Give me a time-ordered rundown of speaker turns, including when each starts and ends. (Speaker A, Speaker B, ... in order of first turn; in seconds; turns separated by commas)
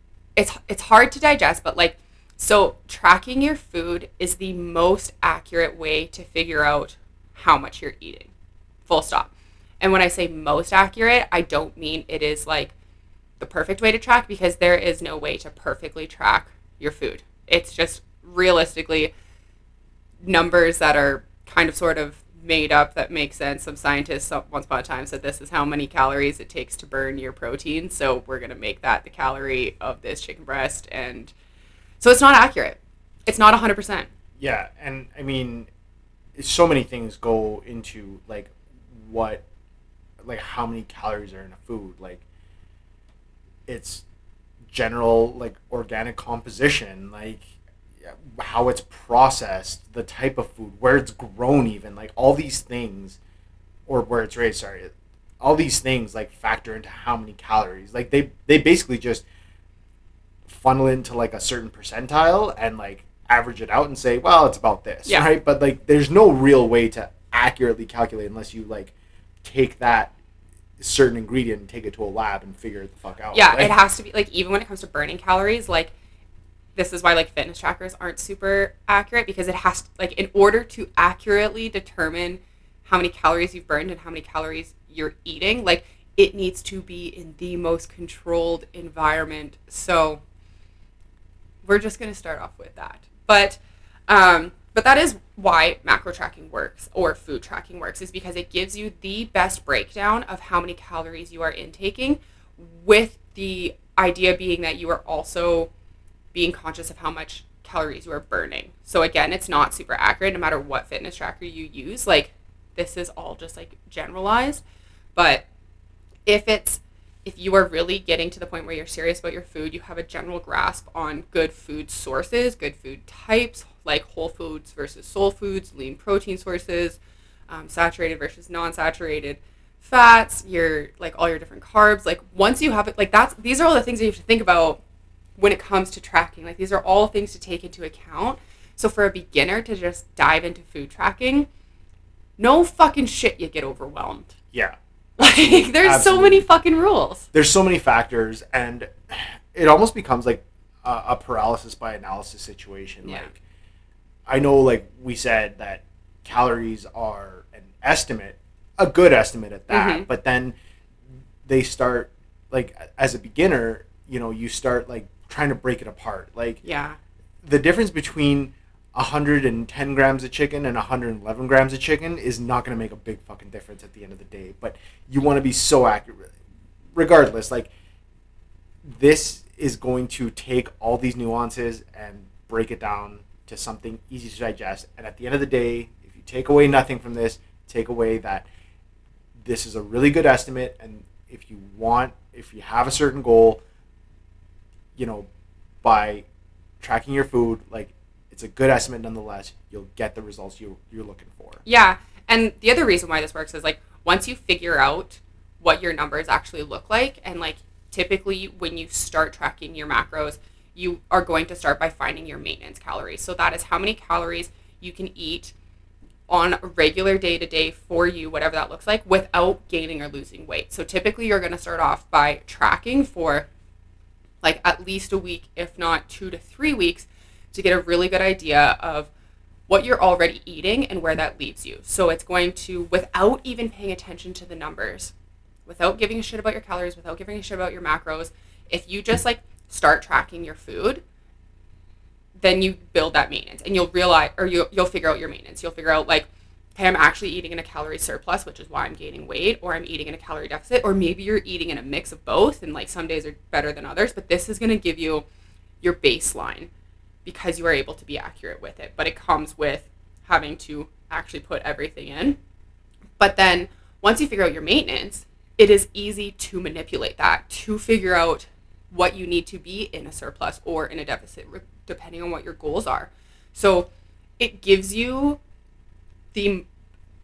Speaker A: 0.4-8.3, Speaker A: 8.9-12.7, Speaker A: 13.4-19.1, Speaker A: 20.2-31.3, Speaker A: 32.0-34.1, Speaker B: 34.4-35.7, Speaker B: 36.4-39.4, Speaker B: 40.2-42.2, Speaker B: 43.7-44.0, Speaker B: 44.7-47.5, Speaker B: 48.0-53.2, Speaker B: 53.9-59.2, Speaker B: 60.5-70.1, Speaker B: 70.8-73.7, Speaker A: 73.3-75.9, Speaker A: 76.8-90.2, Speaker A: 91.6-105.7, Speaker A: 106.3-114.6, Speaker A: 115.2-115.5, Speaker A: 116.3-134.8, Speaker A: 135.4-141.5, Speaker A: 142.4-144.4, Speaker B: 144.5-146.5, Speaker A: 145.2-147.3, Speaker B: 147.3-153.4, Speaker A: 153.0-153.3, Speaker B: 154.3-160.6, Speaker A: 159.7-160.1, Speaker B: 161.5-166.6, Speaker A: 166.6-167.0, Speaker B: 167.4-176.3, Speaker B: 176.9-177.7, Speaker B: 178.8-188.5, Speaker B: 189.4-193.6, Speaker B: 195.0-195.3, Speaker B: 195.8-196.2, Speaker B: 196.8-201.6, Speaker A: 201.7-215.5, Speaker A: 216.3-223.5, Speaker A: 224.4-229.1, Speaker A: 229.7-235.1, Speaker A: 235.7-241.0, Speaker A: 242.4-255.3, Speaker A: 255.8-256.7, Speaker A: 257.2-262.4, Speaker A: 263.2-275.4, Speaker A: 276.3-276.7